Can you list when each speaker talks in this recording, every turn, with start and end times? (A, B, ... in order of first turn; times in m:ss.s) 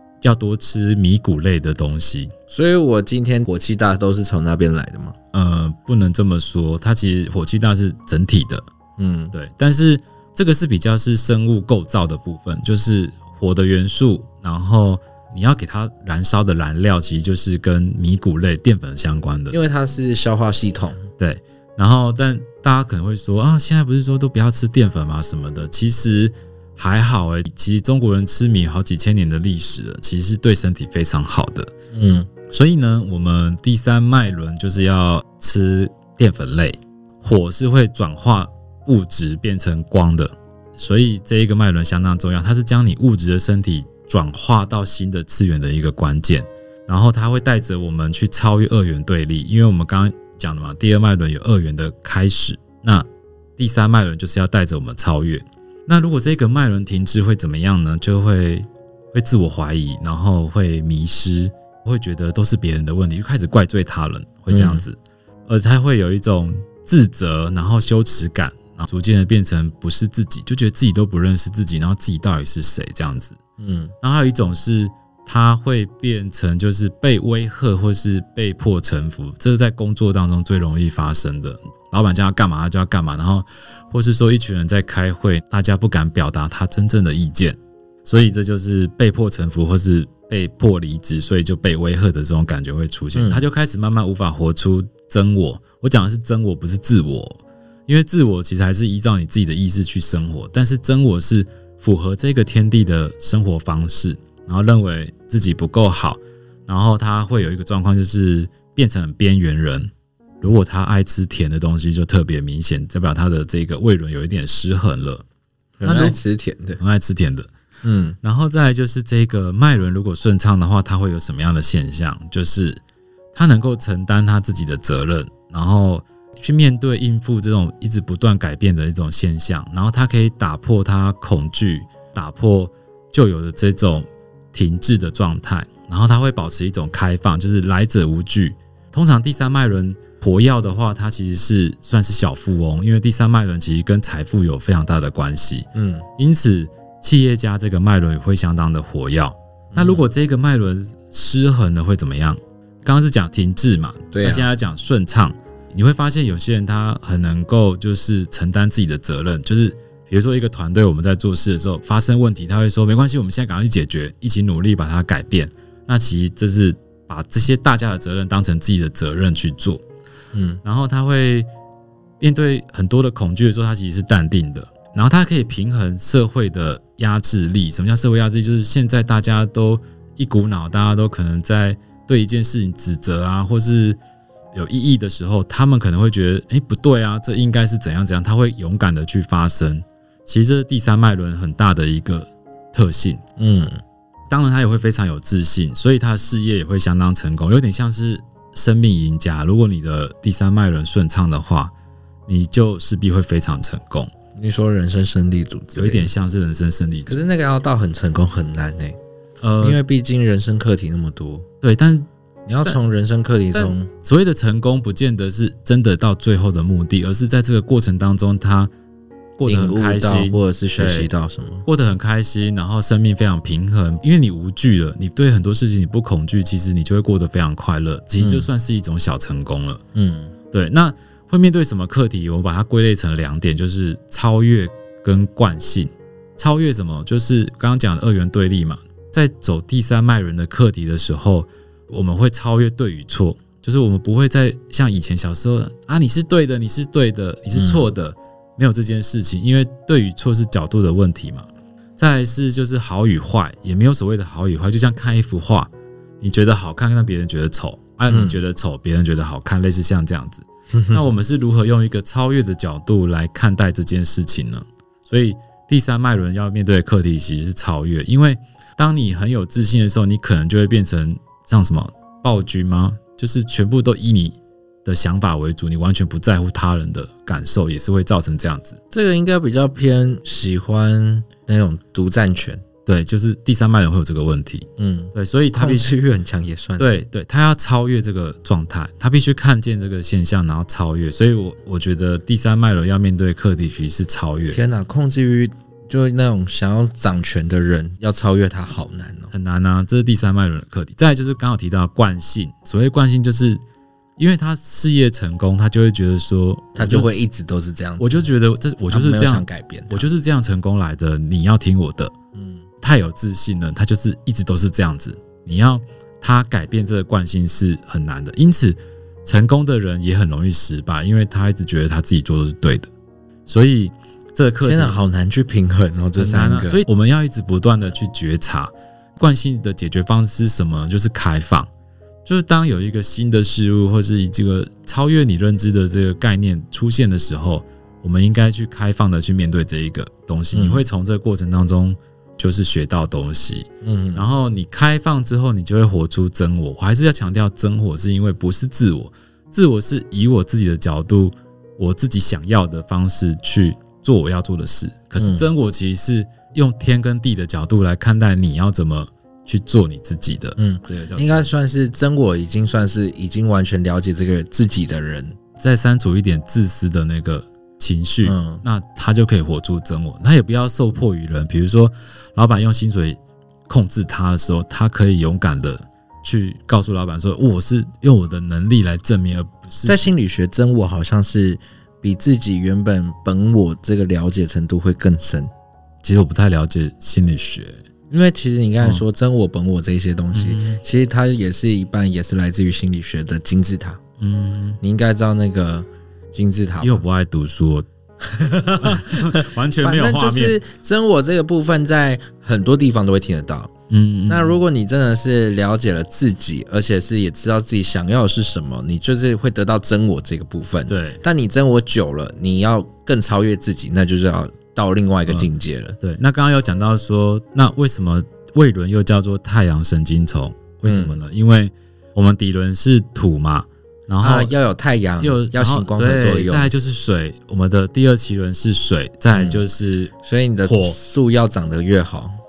0:00.2-0:02.3 A
0:02.5-0:05.2 B
0:05.3-0:08.6 A
0:09.0-0:09.3 B
0:09.3-0:19.6 A
0:19.5-0:21.0 B
0:21.2-0:31.7 A
0:31.9-0:32.3 B
0:32.5-1:13.4 A
1:04.5-1:04.8 B
1:13.6-1:13.9 B
1:14.0-1:49.9 A
1:33.1-1:33.4 B
1:50.4-1:55.2 A
1:55.8-1:56.8 B
1:55.8-1:56.2 A
1:56.8-1:57.5 A
1:57.8-1:58.2 B
1:58.2-2:02.8 A
2:03.3-2:49.8 A
2:25.7-2:26.0 B
2:29.7-2:30.0 B
2:34.1-2:34.5 B
2:50.3-2:50.6 B
2:50.6-2:51.5 A
2:52.2-3:04.0 A
3:04.5-3:13.2 A
3:13.4-3:13.8 B
3:14.3-3:21.7 A
3:22.3-3:24.1 A
3:24.4-3:26.1 B
3:25.8-3:27.2 A
3:27.1-3:29.0 B
3:29.4-3:29.8 A
3:29.6-3:31.4 B
3:31.6-3:32.0 A
3:32.4-3:33.9 B
3:33.5-3:38.7 A
3:39.4-3:41.1 A
3:39.4-3:41.6 B
3:41.6-3:49.8 A
3:48.2-3:48.5 B
3:49.9-3:50.3 B
3:50.5-4:15.7 A
4:07.5-4:07.8 B
4:16.2-4:38.8 A
4:18.1-4:18.4 B
4:20.7-4:21.0 B
4:38.9-4:42.6 B
4:42.8-4:45.9 A
4:44.8-4:46.9 B
4:46.8-4:54.6 A
4:54.5-4:59.3 B
4:59.3-5:03.6 A
5:04.2-5:07.1 A
5:06.8-5:08.3 B
5:08.0-5:12.1 A
5:08.9-5:10.0 B
5:12.3-5:12.6 B
5:12.8-5:22.9 A
5:23.4-5:25.0 A
5:24.6-5:26.8 B
5:26.2-5:31.7 A
5:32.2-6:01.5 A
5:40.5-5:40.8 B
5:43.8-5:44.2 B
5:55.2-5:55.4 B
6:00.6-6:05.4 B
6:05.6-6:13.2 A
6:08.2-6:08.6 B
6:13.7-6:20.1 A
6:19.8-6:25.5 B
6:26.0-6:27.8 A
6:28.1-6:34.0 B
6:30.3-6:30.8 A
6:34.2-6:34.8 A
6:34.8-6:37.0 B
6:36.8-6:37.9 A
6:38.3-6:43.7 B
6:38.7-6:40.6 A
6:43.9-6:44.6 A
6:44.3-6:56.0 B
6:50.9-6:51.2 A
6:56.0-7:04.5 A
7:00.8-7:01.2 B
7:04.2-7:06.7 B
7:05.2-7:10.1 A
7:09.3-7:09.6 B
7:10.2-7:12.3 B
7:10.6-7:11.0 A